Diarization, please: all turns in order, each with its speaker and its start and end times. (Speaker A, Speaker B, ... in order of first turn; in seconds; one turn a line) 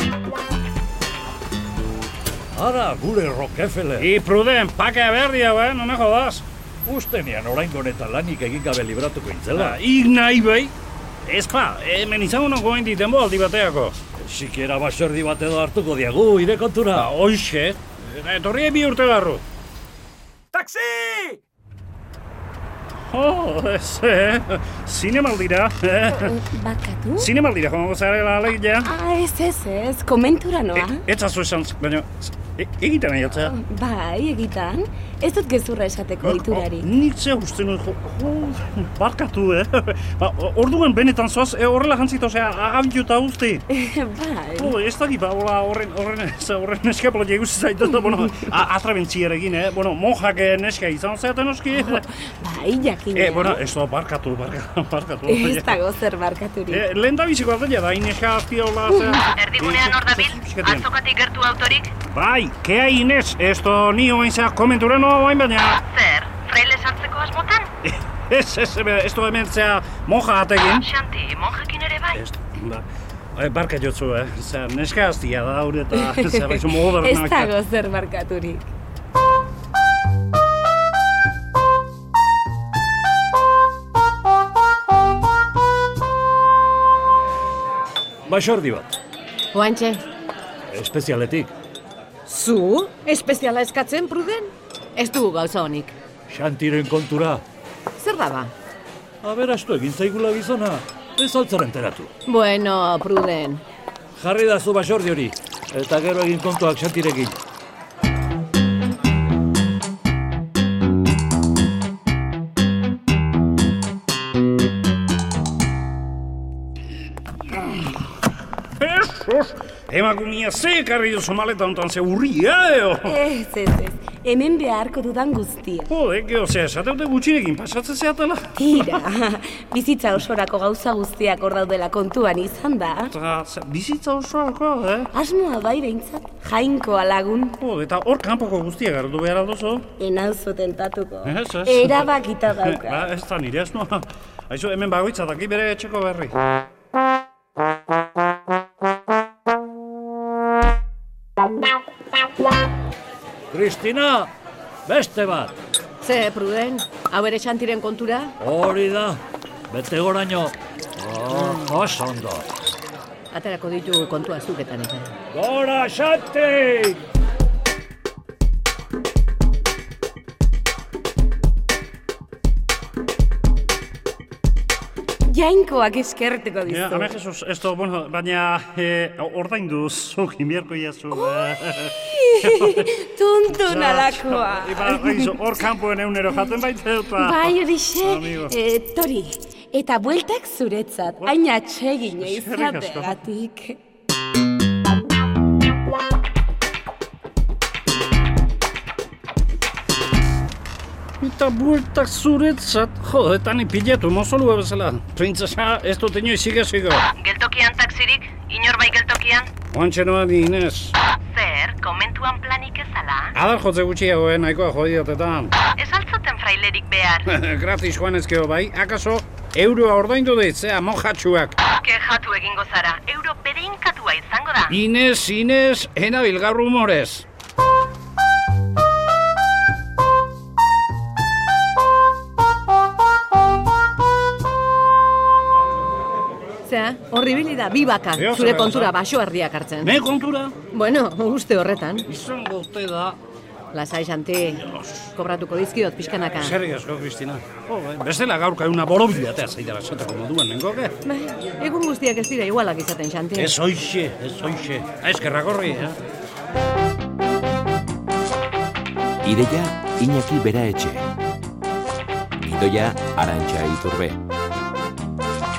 Speaker A: 2.5-4.1
Speaker B: 4.0-6.5
Speaker A: 6.9-9.8
Speaker B: 9.6-10.7
Speaker B: 11.3-14.0
Speaker A: 14.2-17.1
Speaker B: 16.9-19.4
Speaker A: 20.5-21.4
Speaker B: 23.1-26.4
Speaker C: 26.2-27.3
Speaker B: 27.2-28.9
Speaker C: 28.8-31.0
Speaker B: 30.7-33.5
Speaker C: 33.5-36.9
Speaker B: 36.2-43.6
Speaker C: 43.7-44.8
Speaker B: 44.6-52.1
Speaker C: 51.7-53.6
Speaker B: 53.1-55.8
Speaker C: 55.3-56.9
Speaker B: 56.7-60.9
Speaker C: 58.9-59.3
Speaker D: 59.4-61.9
Speaker B: 62.1-65.8
Speaker D: 65.9-67.7
Speaker B: 67.8-70.9
Speaker D: 70.8-72.2
Speaker B: 72.1-77.5
Speaker C: 76.0-78.7
Speaker A: 88.3-89.0
Speaker E: 89.5-90.0
Speaker A: 90.7-91.5
Speaker E: 92.3-96.0
Speaker A: 96.3-97.4
Speaker E: 98.0-98.5
Speaker A: 99.2-102.1
Speaker E: 102.3-103.6
Speaker A: 104.2-107.4
Speaker B: 117.5-117.9
Speaker B: 118.8-123.2
Speaker C: 123.1-125.9
Speaker B: 125.9-129.0
Speaker C: 128.6-133.1
Speaker B: 133.1-135.1
Speaker C: 135.1-137.6
Speaker B: 137.6-139.9
Speaker C: 140.0-143.1
Speaker B: 141.2-146.3
Speaker A: 153.5-154.3
Speaker A: 154.9-155.6
Speaker E: 156.0-158.3
Speaker A: 158.4-162.5
Speaker E: 163.3-165.1
Speaker A: 165.3-167.0
Speaker C: 175.3-177.1
Speaker B: 176.7-182.9
Speaker C: 181.2-185.3
Speaker B: 183.7-188.5
Speaker C: 187.2-193.8
Speaker B: 192.2-193.2
Speaker B: 201.2-207.1
Speaker D: 207.2-209.5
Speaker B: 209.7-211.0
Speaker D: 211.3-213.3
Speaker B: 213.3-215.5
Speaker D: 215.8-217.3
Speaker B: 217.3-221.6
Speaker D: 221.8-224.8
Speaker B: 224.7-227.3
Speaker E: 236.7-239.9
Speaker B: 238.2-238.9
Speaker B: 239.8-240.5
Speaker E: 240.7-242.1
Speaker B: 242.1-243.2
Speaker E: 243.7-244.6
Speaker B: 244.6-245.1
Speaker E: 245.2-246.6
Speaker B: 246.4-250.9
Speaker E: 251.1-253.5
Speaker B: 253.3-256.0
Speaker F: 259.2-261.1
Speaker F: 262.4-264.2